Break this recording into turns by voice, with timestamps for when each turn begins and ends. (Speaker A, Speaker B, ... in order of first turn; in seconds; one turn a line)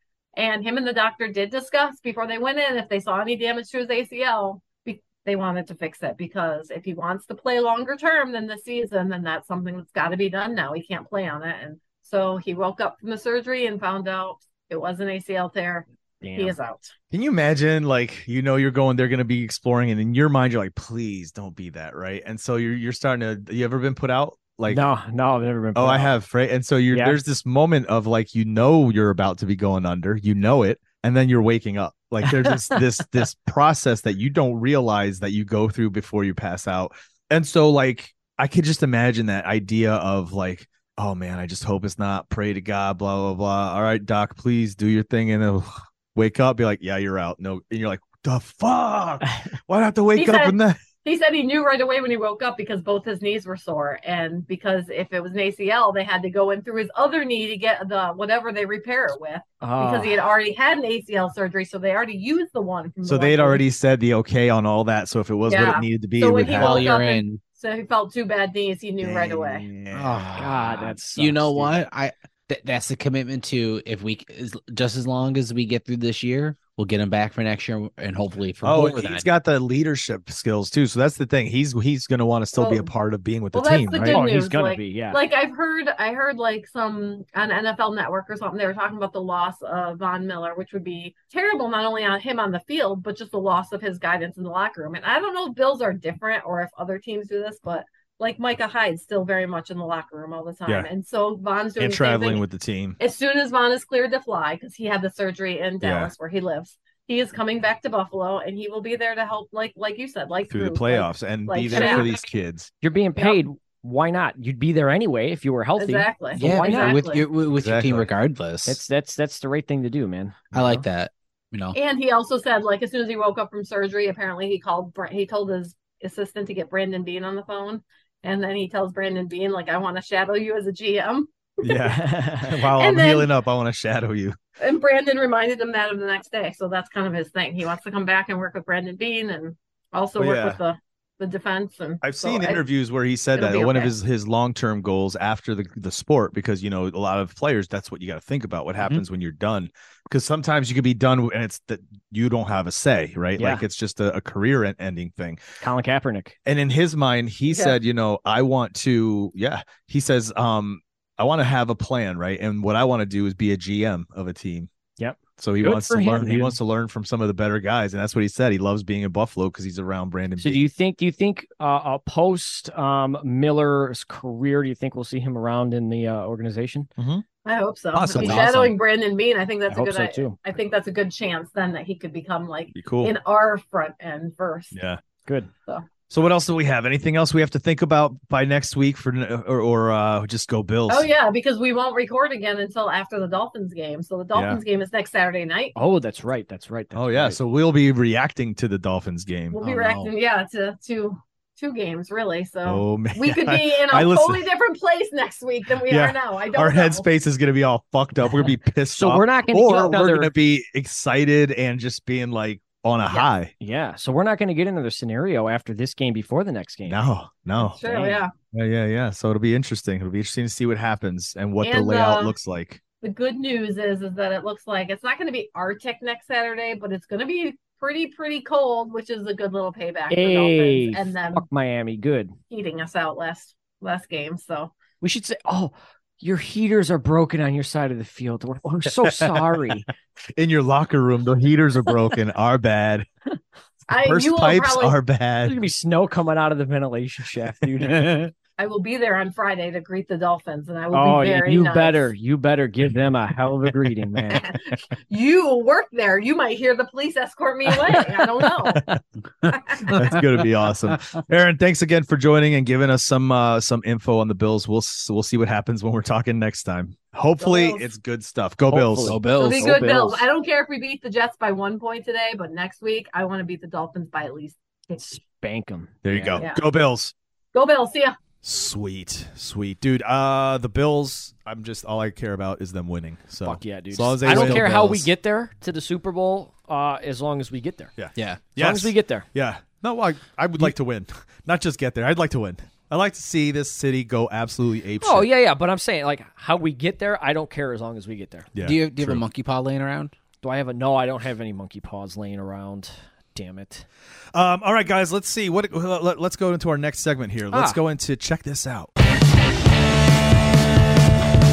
Speaker A: 0.4-16.9
Speaker B: 16.2-16.6
Speaker C: 17.1-24.9
Speaker B: 24.7-26.1
Speaker C: 25.8-50.8
Speaker B: 26.9-27.2
Speaker B: 32.2-32.8
Speaker A: 50.1-63.6
Speaker B: 59.6-60.2
Speaker C: 63.0-67.0
Speaker A: 65.5-69.7
Speaker D: 66.5-67.4
Speaker C: 69.0-70.3
Speaker D: 69.9-79.3
Speaker B: 70.4-71.7
Speaker C: 78.6-84.2
Speaker A: 82.5-82.9
Speaker A: 83.5-102.4
Speaker B: 84.0-85.2
Speaker C: 101.8-103.0
Speaker A: 103.0-112.1
Speaker C: 105.8-106.1
Speaker C: 110.5-112.7
Speaker B: 112.8-117.1
Speaker A: 115.8-117.2
Speaker D: 116.4-118.8
Speaker C: 117.5-118.1
Speaker B: 118.7-120.8
Speaker D: 120.5-121.8
Speaker A: 121.7-131.8
Speaker C: 131.6-134.4
Speaker B: 132.0-132.6
Speaker A: 132.8-133.3
Speaker A: 134.6-142.6
Speaker C: 140.2-140.6
Speaker C: 142.0-155.4
Speaker A: 143.4-143.9
Speaker B: 153.4-153.7
Speaker B: 155.6-156.4
Speaker C: 156.5-164.7
Speaker A: 157.5-157.8
Speaker B: 165.0-166.6
Speaker C: 165.4-170.6
Speaker B: 170.4-176.9
Speaker C: 177.0-177.2
Speaker A: 177.4-184.7
Speaker C: 177.9-178.7
Speaker D: 178.2-178.6
Speaker B: 179.7-180.4
Speaker C: 182.7-183.1
Speaker C: 184.7-185.0
Speaker C: 186.1-191.1
Speaker A: 190.9-195.7
Speaker C: 194.3-194.6
Speaker B: 195.8-197.4
Speaker C: 196.9-199.6
Speaker A: 199.5-207.1
Speaker D: 199.6-200.1
Speaker C: 202.7-204.4
Speaker C: 205.9-213.5
Speaker B: 208.9-210.3
Speaker B: 213.6-217.0
Speaker C: 216.9-217.8
Speaker A: 217.8-218.3
Speaker B: 217.8-218.2
Speaker C: 218.5-222.8
Speaker A: 221.6-222.3
Speaker A: 223.0-231.5
Speaker B: 230.1-232.4
Speaker A: 232.5-234.8
Speaker B: 235.0-239.9
Speaker C: 239.1-239.4
Speaker C: 240.4-243.1
Speaker A: 243.9-245.0
Speaker C: 243.9-245.6
Speaker B: 245.4-248.3
Speaker D: 247.9-248.2
Speaker A: 248.6-252.0
Speaker B: 250.9-254.4
Speaker A: 254.3-258.8
Speaker A: 259.5-260.0
Speaker C: 259.9-269.2
Speaker A: 267.4-267.9
Speaker B: 268.7-270.2
Speaker D: 269.1-270.2
Speaker A: 269.4-275.1
Speaker B: 275.0-276.4
Speaker C: 276.0-277.1
Speaker A: 276.4-276.7
Speaker A: 277.5-278.2
Speaker C: 278.4-284.8
Speaker B: 283.4-287.9
Speaker D: 284.3-285.1
Speaker C: 288.0-295.3
Speaker D: 288.1-288.4
Speaker B: 288.6-289.3
Speaker B: 295.0-298.5
Speaker C: 298.5-299.2
Speaker D: 298.6-300.1
Speaker B: 300.4-303.9
Speaker C: 304.3-308.9
Speaker B: 307.5-307.8